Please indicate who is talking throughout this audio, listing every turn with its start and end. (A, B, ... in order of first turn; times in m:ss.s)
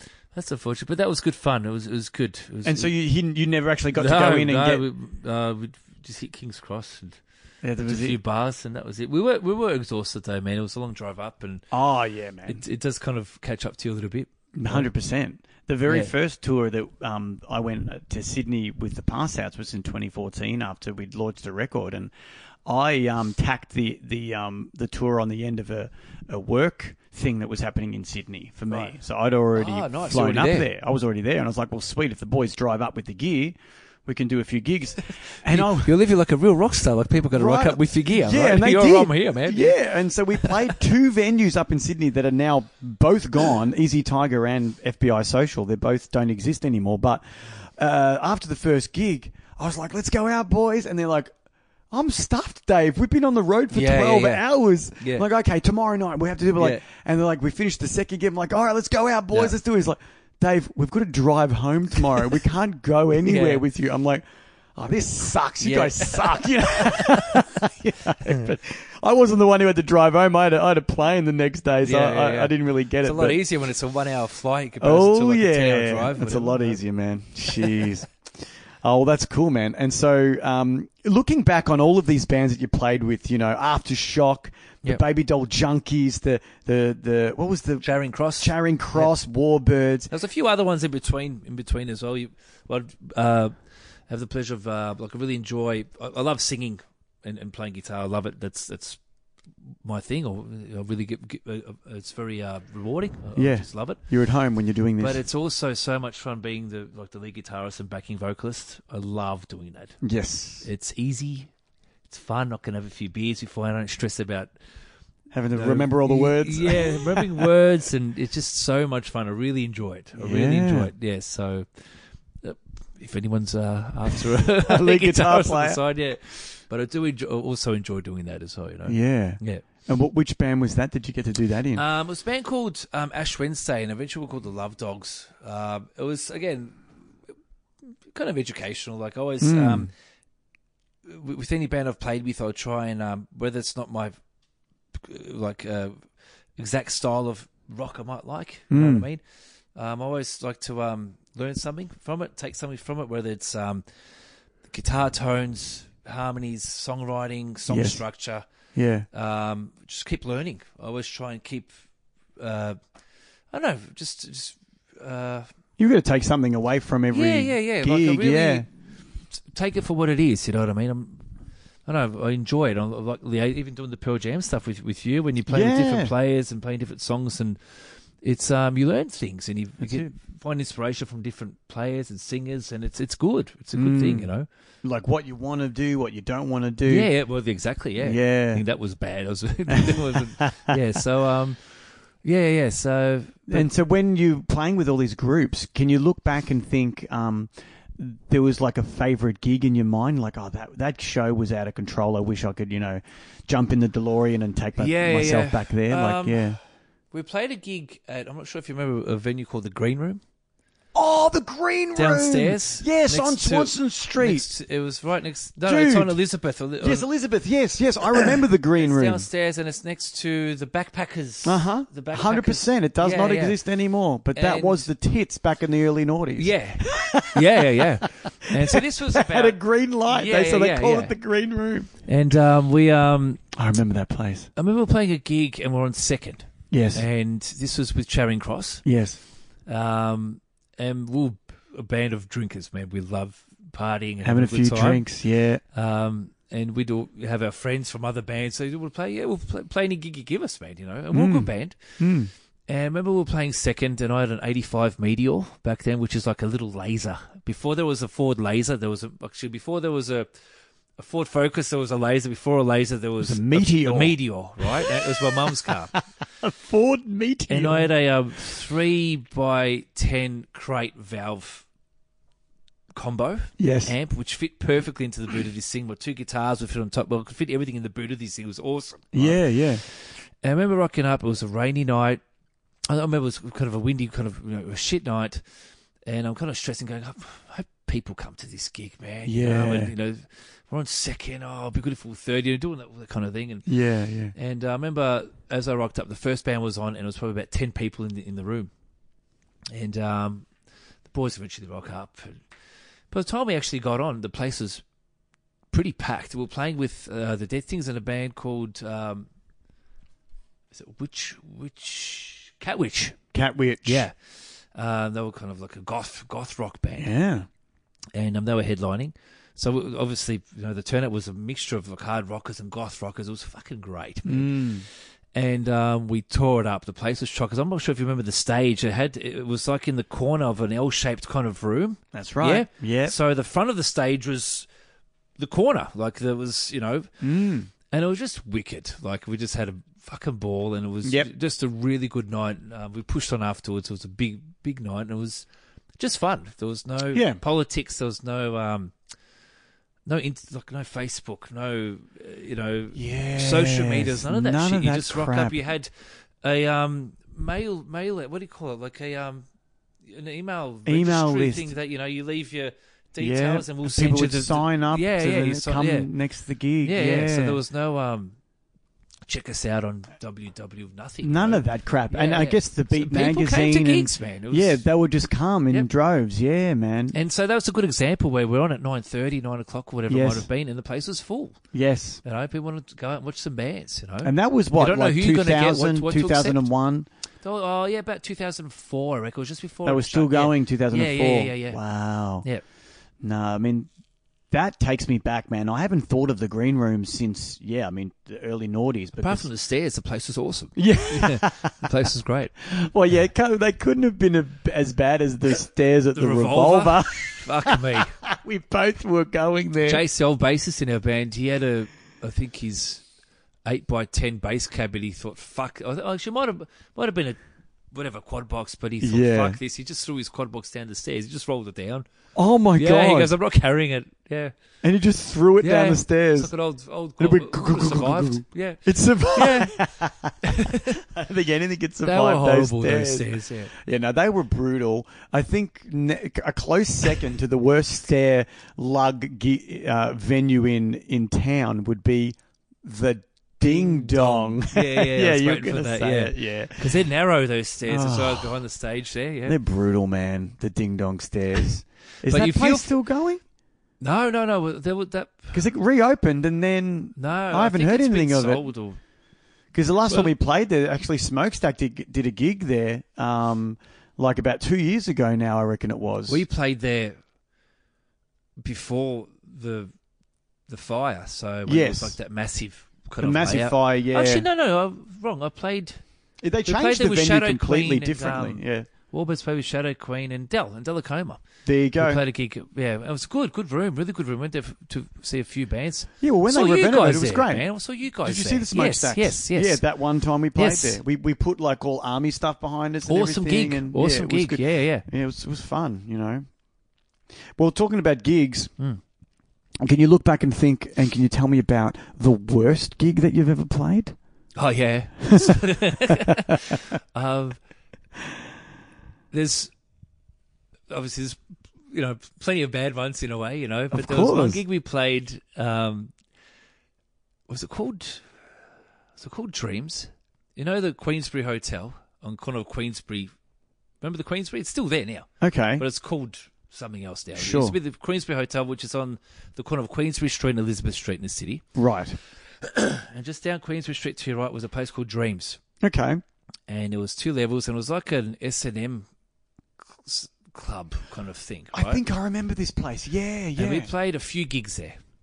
0:00.3-0:02.9 A
0:02.6-0:04.8 B
0:04.0-0:07.2 A
0:07.6-0:08.2 B
0:07.8-0:11.6 A
0:11.7-0:12.6 B
0:12.4-0:14.9 A
0:14.5-0:22.1 B
0:15.9-0:16.1 A
0:22.6-0:35.9 B
0:29.5-0:30.7 A
0:35.5-0:39.8 A
0:37.3-0:51.3 B
0:51.9-1:04.2 B
0:53.7-0:54.4 A
0:55.0-0:55.2 A
0:56.6-0:56.8 A
1:03.2-1:03.6 A
1:04.8-1:13.4 B
1:05.6-1:07.4 A
1:11.8-1:16.8 A
1:14.8-1:18.1 B
1:17.5-1:17.8 A
1:18.8-1:27.8 B
1:27.8-1:29.1 A
1:28.4-1:30.1 B
1:30.1-1:33.5 A
1:34.1-1:39.0 A
1:39.8-1:44.0 A
1:43.4-1:45.2 B
1:45.0-1:50.0 A
1:50.0-1:50.6 B
1:50.6-1:51.5 A
1:52.1-1:54.5 A
1:55.3-1:57.5 B
1:55.5-2:01.8 A
2:00.2-2:00.9 B
2:02.4-2:09.6 A
2:04.6-2:05.8 B
2:08.9-2:11.8 B
2:11.7-2:16.9 A
2:18.1-2:19.9 A
2:19.4-2:19.9 B
2:21.0-2:24.2 A
2:25.0-2:26.0 A
2:26.6-2:29.2 A
2:28.7-2:29.1 B
2:29.7-2:33.8 A
2:34.7-2:38.4 A
2:37.7-2:38.0 B
2:38.7-2:39.1 B
2:39.1-2:41.7 A
2:42.4-2:42.8 A
2:43.5-2:45.5 A
2:45.8-2:48.6 B
2:47.1-2:48.7 A
2:49.3-2:51.2 A
2:51.8-3:04.5 A
2:55.5-2:56.1 B
2:59.8-3:00.1 B
3:03.7-3:04.3 B
3:04.8-3:07.1 B
3:06.8-3:13.7 A
3:08.0-3:08.6 B
3:09.7-3:10.7 B
3:13.5-3:26.6 B
3:24.8-3:26.6 A
3:27.1-3:30.2 A
3:30.9-3:34.4 B
3:31.9-3:37.1 A
3:35.6-3:36.2 B
3:36.8-3:39.2 B
3:38.2-3:43.6 A
3:41.4-3:51.9 B
3:44.3-3:44.9 A
3:46.4-3:51.1 A
3:52.0-3:53.4 A
3:53.5-3:54.5 B
3:54.6-3:58.8 A
3:56.7-3:57.0 B
3:58.8-3:59.2 B
3:59.6-4:05.0 A
4:04.2-4:05.6 B
4:05.7-4:12.0 A
4:11.1-4:12.3 B
4:12.7-4:20.3 A
4:21.0-4:26.0 A
4:23.2-4:27.9 B
4:27.5-4:31.6 A
4:32.9-4:42.2 A
4:33.6-4:33.9 B
4:39.1-4:39.8 B
4:42.9-4:45.4 A
4:46.0-4:53.7 A
4:49.2-4:49.9 B
4:53.7-4:54.3 B
4:54.3-4:58.7 A
4:59.7-5:00.5 A
5:01.1-5:02.4 A
5:03.1-5:04.8 A
5:05.7-5:09.3 A
5:10.7-5:13.2 A
5:13.3-5:14.1 B
5:13.8-5:14.2 A
5:14.7-5:17.1 A
5:17.0-5:17.5 B
5:18.1-5:34.7 A
5:24.2-5:24.8 B
5:32.1-5:33.1 B
5:35.4-5:37.1 A
5:37.2-5:37.7 B
5:37.9-5:45.4 A
5:41.0-5:41.3 B
5:46.0-5:48.9 A
5:47.1-5:47.4 B
5:50.0-5:55.9 A
5:52.9-5:55.6 B
5:56.4-5:59.4 A
6:00.0-6:06.1 A
6:00.8-6:01.7 B
6:03.2-6:07.6 B
6:06.8-6:08.4 A
6:09.2-6:14.8 A
6:11.2-6:17.2 B
6:17.1-6:21.6 A
6:20.1-6:20.5 B
6:21.7-6:22.2 B
6:22.2-6:26.7 A
6:24.2-6:27.1 B
6:27.4-6:31.8 A
6:29.8-6:32.4 B
6:33.2-6:33.9 B
6:34.5-6:39.5 B
6:39.2-6:42.5 A
6:40.8-6:41.8 B
6:42.6-6:50.0 B
6:46.1-6:48.2 A
6:49.8-6:53.0 A
6:53.6-6:57.4 A
6:57.9-7:02.0 A
6:59.0-6:59.6 B
7:02.3-7:03.3 B
7:02.8-7:04.5 A
7:04.8-7:06.5 B
7:05.6-7:09.8 A
7:07.2-7:27.0 B
7:10.4-7:11.0 A
7:12.0-7:13.7 A
7:23.6-7:29.6 A
7:27.8-7:28.5 B
7:29.4-7:33.4 B
7:32.3-7:32.9 A
7:34.0-7:35.7 A
7:35.5-7:38.6 B
7:37.2-7:39.0 A
7:39.7-7:46.4 B
7:46.3-7:47.2 A
7:48.6-7:49.9 A
7:50.7-7:56.0 A
7:51.6-7:52.2 B
7:53.2-7:54.4 B
7:56.4-7:58.9 B
7:56.6-8:01.4 A
8:01.6-8:02.2 B
8:02.0-8:09.8 A
8:06.2-8:07.6 B
8:08.2-8:16.4 B
8:10.5-8:11.0 A
8:13.1-8:15.0 A
8:17.6-8:18.7 B
8:19.8-8:24.2 B
8:24.6-8:27.6 A
8:25.2-8:26.8 B
8:29.3-8:29.7 A
8:30.9-8:31.4 A
8:31.9-8:36.1 A
8:33.9-8:34.6 B
8:37.5-8:38.2 A
8:39.2-8:43.3 A
8:44.0-8:51.6 A
8:45.4-8:45.8 B
8:47.3-8:47.8 B
8:51.8-8:52.2 B
8:52.6-8:55.6 A
8:55.8-8:56.2 B
8:56.7-8:59.1 A
8:59.8-9:02.0 A
9:01.7-9:03.9 B
9:03.6-9:05.0 A